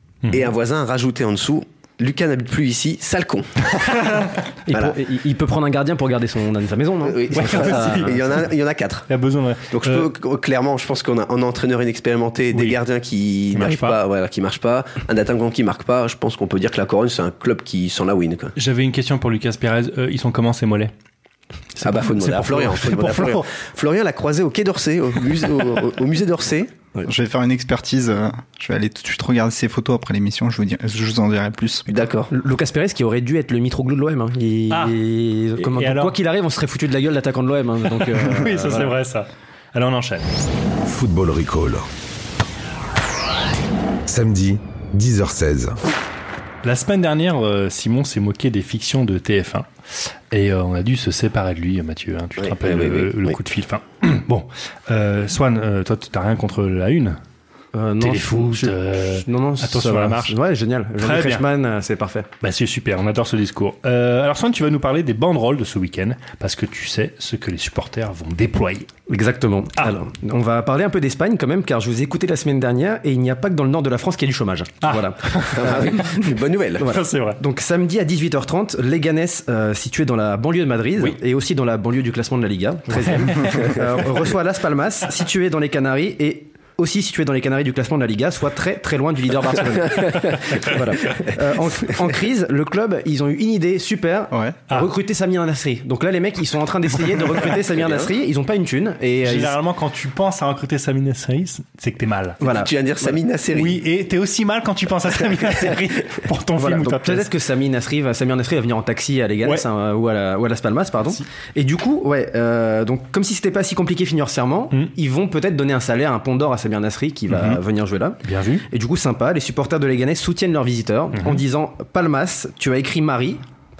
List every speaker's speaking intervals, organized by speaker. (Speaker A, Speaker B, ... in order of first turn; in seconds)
Speaker A: 0.2-0.5, 7.3-8.4, 9.1-10.1, 12.5-12.8, 13.5-14.0, 18.6-20.9, 21.8-23.5, 35.6-36.1, 38.1-40.3, 46.6-49.7, 50.3-57.2, 58.0-60.4, 61.0-61.5, 62.4-68.9, 74.8-76.0, 76.9-77.4, 82.9-83.8, 99.2-102.4, 103.5-107.3, 118.2-118.7
Speaker B: 0.3-5.0, 7.0-9.1, 9.7-18.5, 21.8-26.7, 31.9-32.3, 52.4-53.4, 75.5-77.0, 97.7-98.1, 102.4-103.8
Speaker C: 4.7-8.1, 32.3-38.9, 57.7-62.3, 69.1-75.5, 76.8-99.5, 102.4-102.7, 106.6-123.4
Speaker D: 27.1-31.9, 94.3-94.6
Speaker E: 40.8-41.9, 44.1-45.8